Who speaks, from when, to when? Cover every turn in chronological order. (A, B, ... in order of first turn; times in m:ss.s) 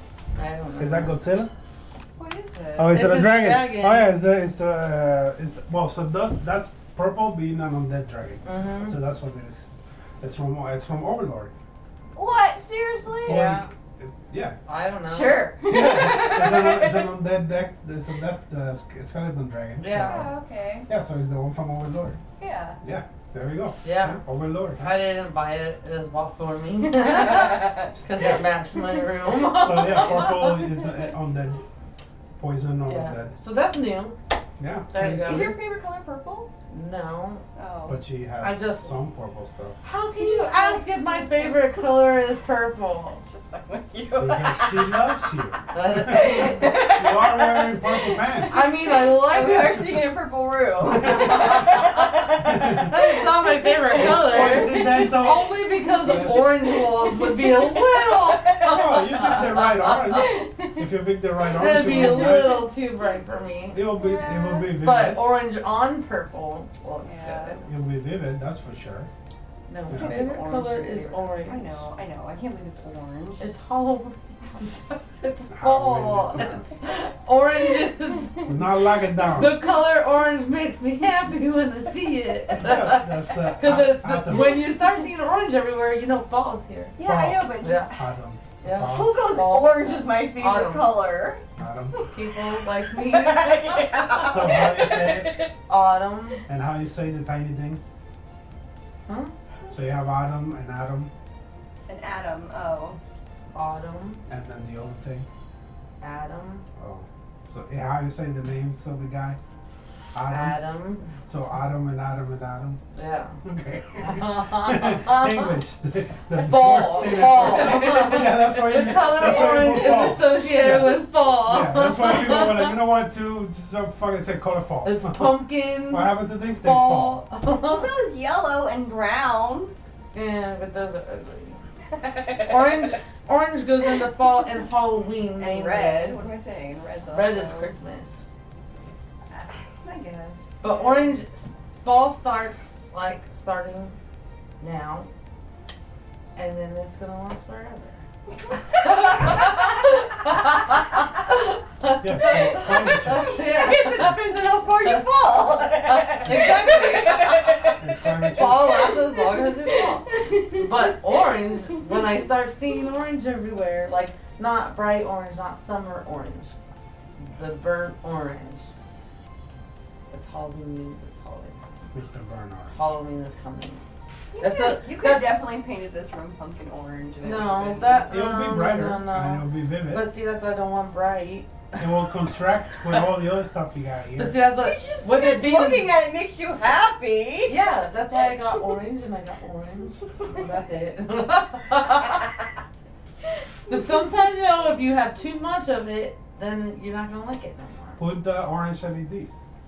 0:00.4-0:01.2 A
0:00.8-0:01.5 B
0:02.2-0:03.0 C
0:02.8-0:09.7 B
0:02.9-0:04.1 A
0:08.4-0:09.0 A
0:10.2-0:11.5 B
0:12.1-0:13.4 C
0:13.2-0:13.7 A
0:13.2-0:14.6 B
0:14.7-0:15.5 A
0:15.1-0:17.1 C
0:15.6-0:20.3 B
0:19.8-0:20.3 A
0:20.0-0:20.9 C
0:20.9-0:22.2 B
0:22.4-0:22.8 C
0:22.8-0:24.9 B
0:23.8-0:24.2 A
0:24.8-0:30.6 A
0:27.1-0:27.8 C
0:28.0-0:28.4 B
0:29.5-0:31.6 B
0:32.4-0:33.3 B
0:32.9-0:34.2 A
0:34.6-0:35.6 B
0:34.9-0:35.5 A
0:35.2-0:36.5 C
0:36.7-0:37.4 A
0:37.5-0:38.0 C
0:37.9-0:39.8 B
0:38.4-0:38.9 A
0:39.8-0:43.2 A
0:40.2-0:41.9 C
0:43.2-0:45.2 C
0:44.2-0:48.6 B
0:45.7-0:46.8 A
0:46.2-0:55.1 C
0:48.5-0:50.1 A
0:51.0-0:51.8 B
0:51.0-1:00.2 A
0:52.4-0:52.9 B
0:53.9-0:56.4 B
0:56.1-0:59.3 C
0:58.6-1:02.7 B
1:00.1-1:00.8 C
1:01.4-1:03.9 A
1:03.7-1:05.2 B
1:03.9-1:04.7 C
1:04.6-1:07.7 A
1:07.0-1:07.6 C
1:07.6-1:09.1 B
1:09.7-1:11.8 A
1:09.9-1:13.5 C
1:09.9-1:10.2 B
1:13.4-1:18.6 A
1:15.5-1:16.7 B
1:18.4-1:19.6 B
1:19.3-1:27.0 A
1:22.6-1:24.7 B
1:27.0-1:28.1 C
1:27.0-1:29.2 B
1:27.6-1:27.9 A
1:28.6-1:31.0 A
1:28.8-1:31.4 C
1:31.6-1:32.0 B
1:32.0-1:35.5 C
1:32.1-1:34.4 A
1:34.2-1:35.3 B
1:35.7-1:36.4 A
1:36.5-1:37.8 B
1:39.1-1:39.3 A
1:39.7-1:41.1 B
1:41.9-1:43.0 C
1:43.5-1:44.2 A
1:44.3-1:45.3 B
1:46.0-1:46.6 A
1:46.8-1:49.4 B
1:50.1-1:50.6 B
1:50.3-1:51.1 A
1:51.2-1:52.8 B
1:52.9-1:53.4 A
1:53.4-2:05.3 B
1:54.0-1:55.5 A
1:56.3-2:02.7 A
1:57.3-1:58.3 C
1:59.1-1:59.9 C
2:04.8-2:07.9 A
2:05.9-2:07.2 B
2:07.6-2:09.7 C
2:10.1-2:11.6 A
2:11.9-2:12.9 C
2:12.3-2:16.2 A
2:15.4-2:17.7 C
2:17.1-2:18.2 A
2:19.4-2:21.2 C
2:20.6-2:23.9 A
2:24.6-2:25.1 A
2:26.4-2:28.0 A
2:28.3-2:29.5 C
2:28.7-2:34.2 A
2:32.0-2:33.4 B
2:33.2-2:41.0 C
2:35.8-2:46.5 A
2:37.8-2:38.7 B
2:41.7-2:42.0 C
2:47.2-2:48.7 A
2:50.1-2:51.9 A
2:51.9-2:52.8 B
2:52.7-2:53.8 A
2:54.3-2:58.1 C
2:54.4-2:55.4 A
2:57.2-3:02.1 A
2:58.1-3:00.0 B
3:01.8-3:04.4 B
3:04.2-3:05.9 A
3:04.6-3:07.6 C
3:07.5-3:12.3 A
3:13.7-3:18.0 A
3:13.7-3:13.9 C
3:18.0-3:19.4 B